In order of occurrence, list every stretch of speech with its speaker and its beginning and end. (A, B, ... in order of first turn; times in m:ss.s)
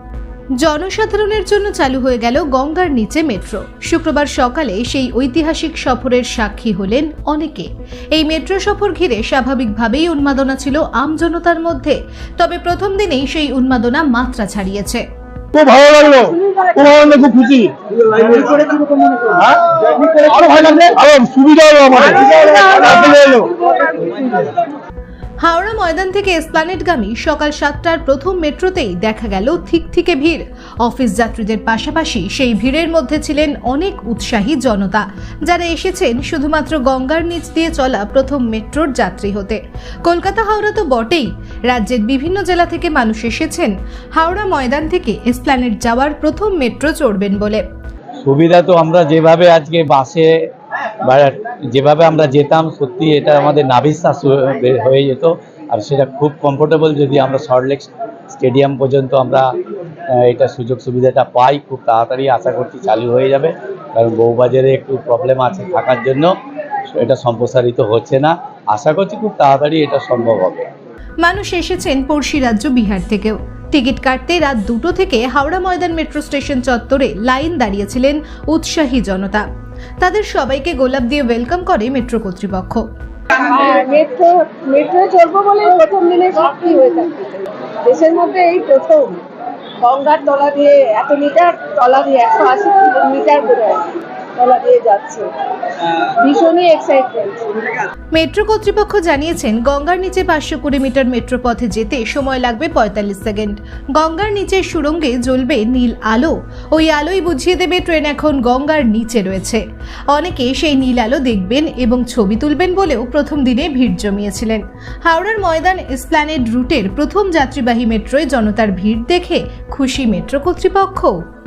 0:00.6-0:15.0 A
0:15.5-0:16.2 B
0:15.8-0:20.9 C
0:16.8-0:18.5 B
0:19.3-0:22.1 B
0:21.9-0:24.5 C
0:23.1-0:23.3 B
0:25.4-0:47.6 A
0:48.2-0:50.3 D
0:51.0-0:59.5 D
1:00.1-1:06.3 D
1:06.9-1:10.7 D
1:11.2-1:19.4 A
1:20.0-1:22.8 A
1:23.3-1:29.2 C
1:29.8-1:35.3 C
1:36.1-1:37.5 C
1:38.2-2:01.1 A